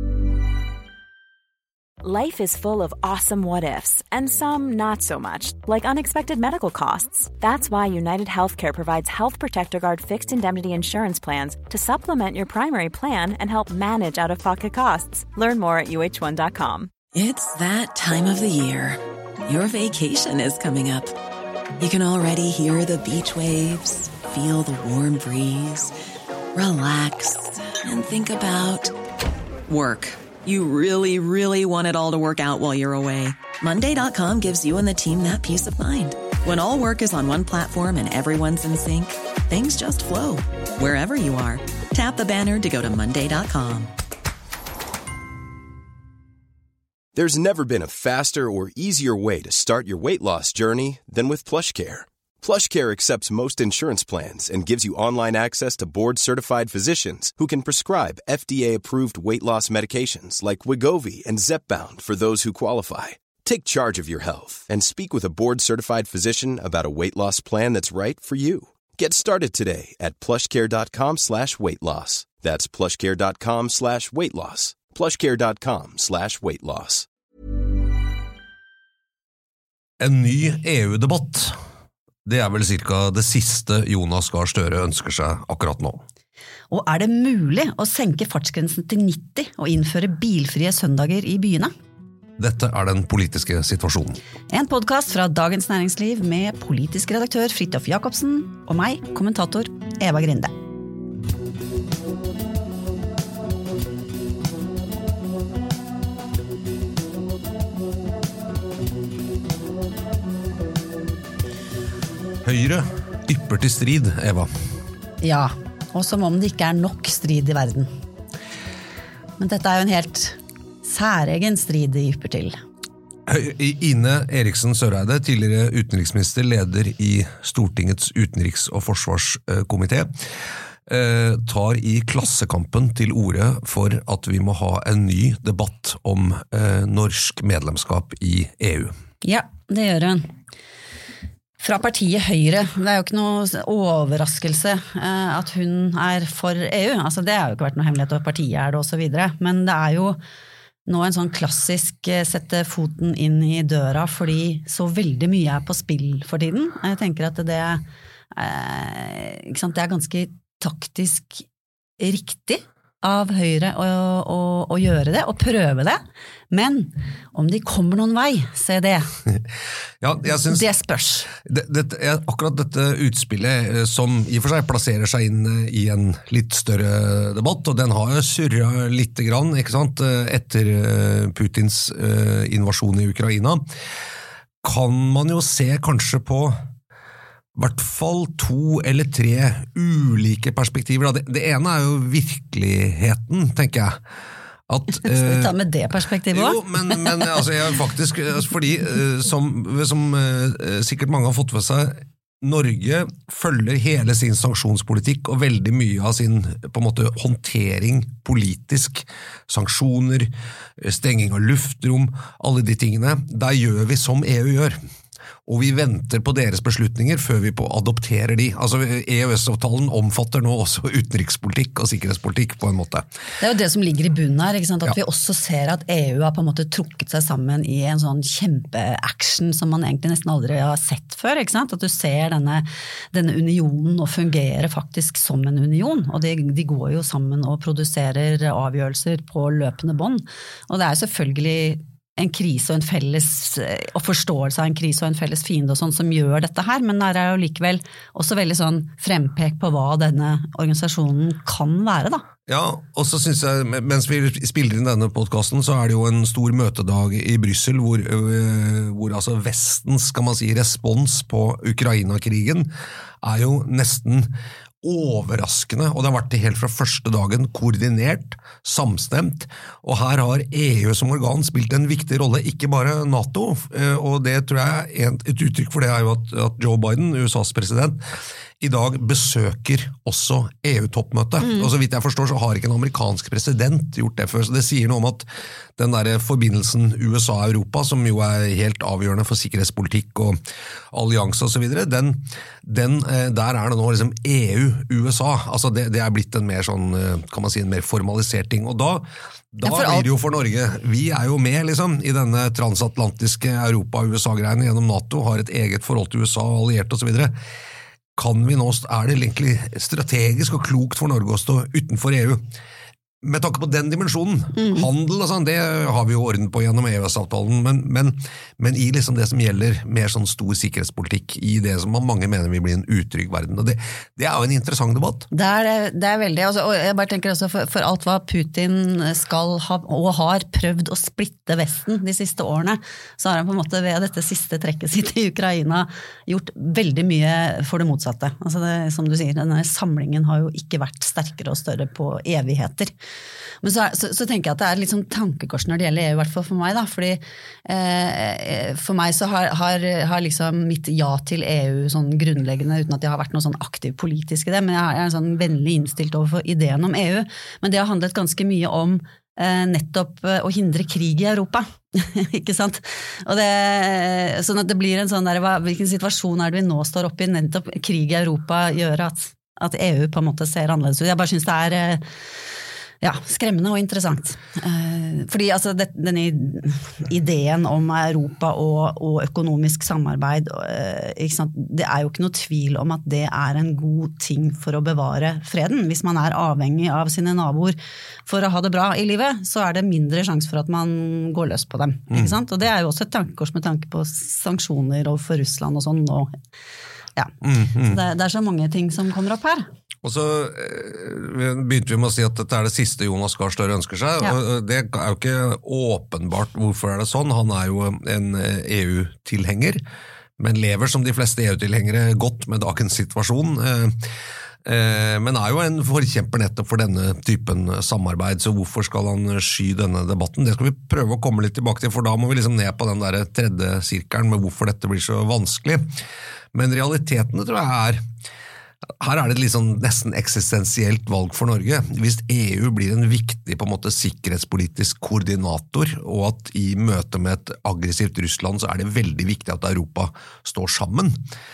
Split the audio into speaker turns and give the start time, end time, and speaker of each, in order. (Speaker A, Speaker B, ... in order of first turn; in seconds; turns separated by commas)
Speaker A: 2.0-16.9, Speaker B: 17.1-21.1, Speaker B: 21.8-25.9, Speaker B: 26.6-28.9, Speaker B: 29.7-43.9, Speaker C: 47.1-77.1, Speaker D: 80.0-81.5, Speaker D: 82.3-86.0, Speaker E: 86.7-91.7, Speaker D: 92.4-94.2, Speaker E: 94.5-100.5, Speaker D: 112.4-114.5, Speaker E: 115.2-117.9, Speaker E: 119.4-122.6, Speaker D: 123.3-130.1, Speaker D: 130.9-138.9, Speaker E: 139.2-140.3, Speaker E: 141.6-150.2, Speaker E: 150.9-161.5, Speaker E: 162.0-166.0, Speaker E: 166.5-169.1, Speaker D: 170.0-170.6, Speaker E: 170.2-171.3, Speaker D: 171.4-183.6, Speaker D: 184.6-186.6, Speaker D: 187.6-194.0, Speaker D: 194.7-195.6, Speaker E: 195.0-197.4, Speaker D: 196.3-214.8, Speaker D: 215.5-223.1, Speaker E: 223.4-252.2, Speaker D: 252.5-262.7, Speaker D: 263.2-264.3, Speaker D: 264.8-278.0, Speaker D: 278.6-285.2, Speaker E: 281.4-281.7, Speaker D: 285.8-290.4, Speaker D: 290.9-307.3, Speaker E: 299.6-300.1, Speaker D: 308.2-312.4, Speaker D: 313.2-325.3, Speaker E: 314.6-314.9, Speaker E: 325.3-342.9, Speaker E: 343.6-372.0, Speaker E: 373.0-396.3, Speaker E: 397.2-399.7, Speaker D: 397.4-398.0, Speaker D: 400.0-409.8, Speaker D: 410.4-414.1, Speaker D: 414.6-425.9, Speaker D: 426.5-428.0, Speaker D: 429.0-441.2